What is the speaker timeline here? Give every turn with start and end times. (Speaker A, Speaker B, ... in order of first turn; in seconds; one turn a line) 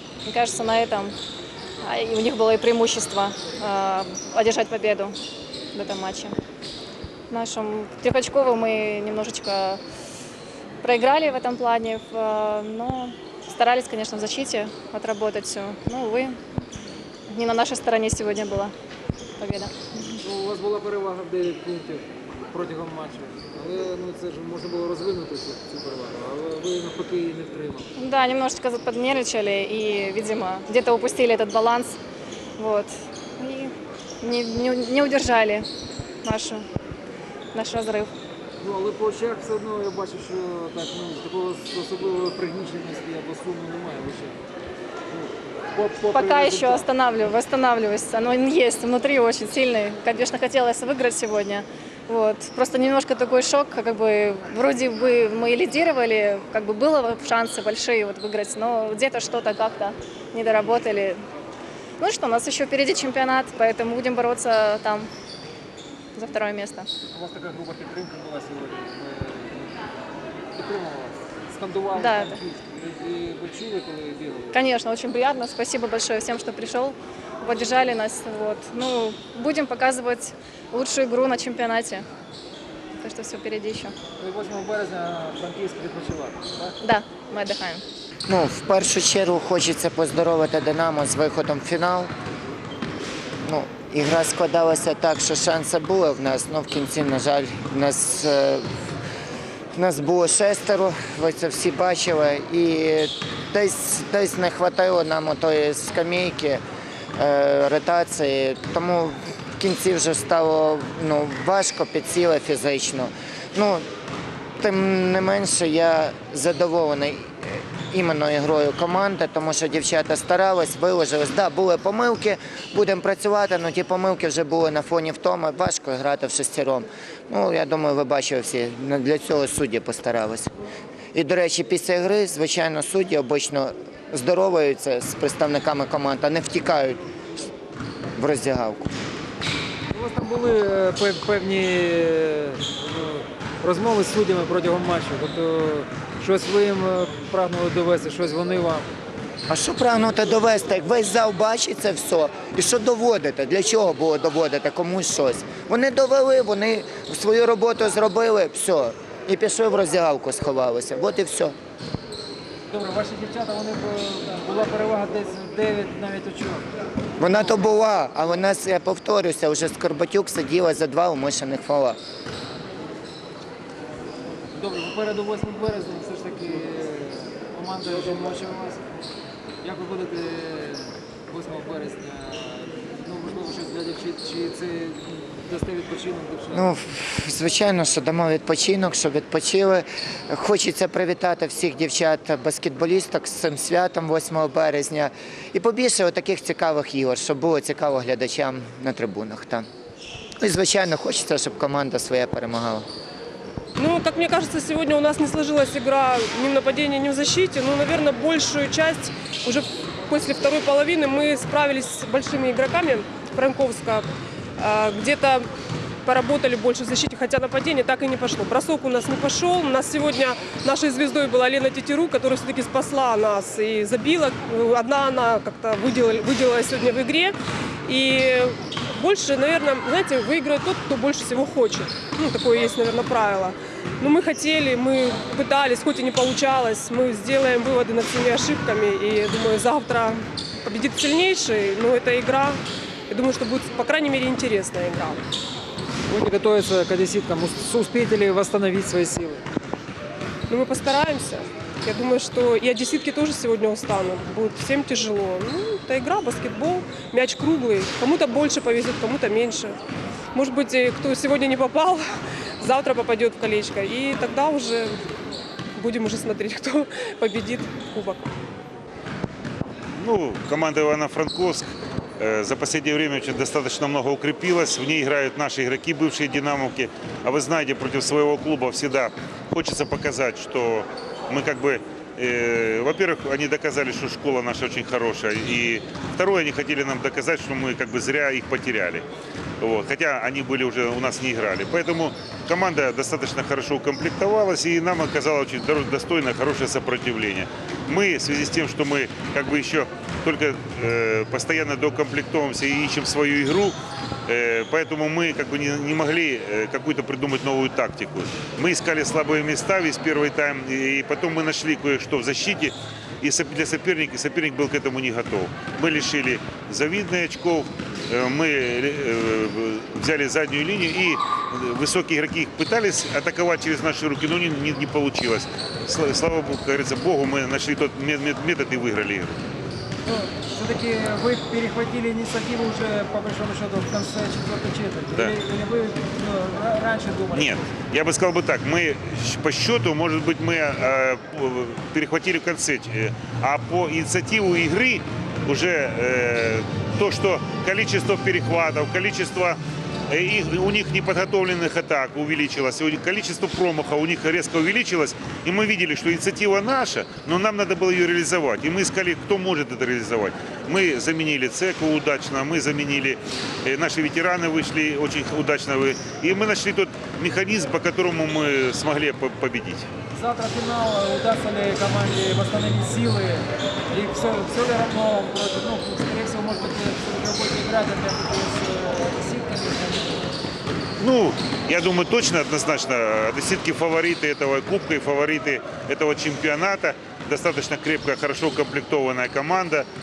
Speaker A: 0.3-1.1
Speaker A: 1.8-5.2
Speaker A: 5.7-6.3
Speaker A: 7.3-9.8
Speaker A: 10.8-16.4
Speaker A: 17.3-18.7
Speaker A: 19.4-19.7
Speaker B: 20.2-27.9
Speaker A: 28.0-32.0
Speaker A: 32.6-35.7
Speaker A: 36.2-36.6
Speaker A: 37.5-38.1
Speaker B: 38.6-44.4
Speaker B: 45.1-46.9
Speaker A: 46.1-61.2
Speaker A: 62.0-65.1
Speaker A: 66.2-66.9
Speaker B: 67.1-69.8
Speaker B: 70.5-74.5
Speaker A: 72.0-72.4
Speaker A: 74.5-82.0
Speaker A: 83.0-83.9
Speaker B: 84.2-86.8
Speaker A: 86.8-87.8
Speaker C: 88.3-92.1
Speaker C: 93.5-98.7
Speaker C: 99.8-106.6
Speaker C: 107.2-113.9
Speaker C: 114.6-130.5
Speaker C: 131.1-137.0
Speaker C: 138.2-138.9
Speaker B: 139.9-148.9
Speaker C: 149.5-161.6
Speaker B: 162.7-166.7
Speaker C: 167.2-172.0
Speaker B: 174.6-178.9
Speaker B: 179.6-186.7
Speaker C: 186.5-199.7
Speaker C: 200.4-202.9
Speaker D: 203.8-214.1
Speaker D: 214.6-215.5
Speaker D: 216.1-245.2
Speaker B: 246.1-249.4
Speaker D: 250.5-259.8
Speaker D: 260.3-262.0
Speaker D: 262.6-265.0
Speaker D: 265.8-268.3
Speaker E: 270.0-289.1
Speaker E: 289.6-303.8
Speaker E: 304.3-329.4
Speaker B: 330.1-337.7
Speaker E: 337.3-369.9
Speaker B: 370.1-380.4
Speaker E: 381.0-389.9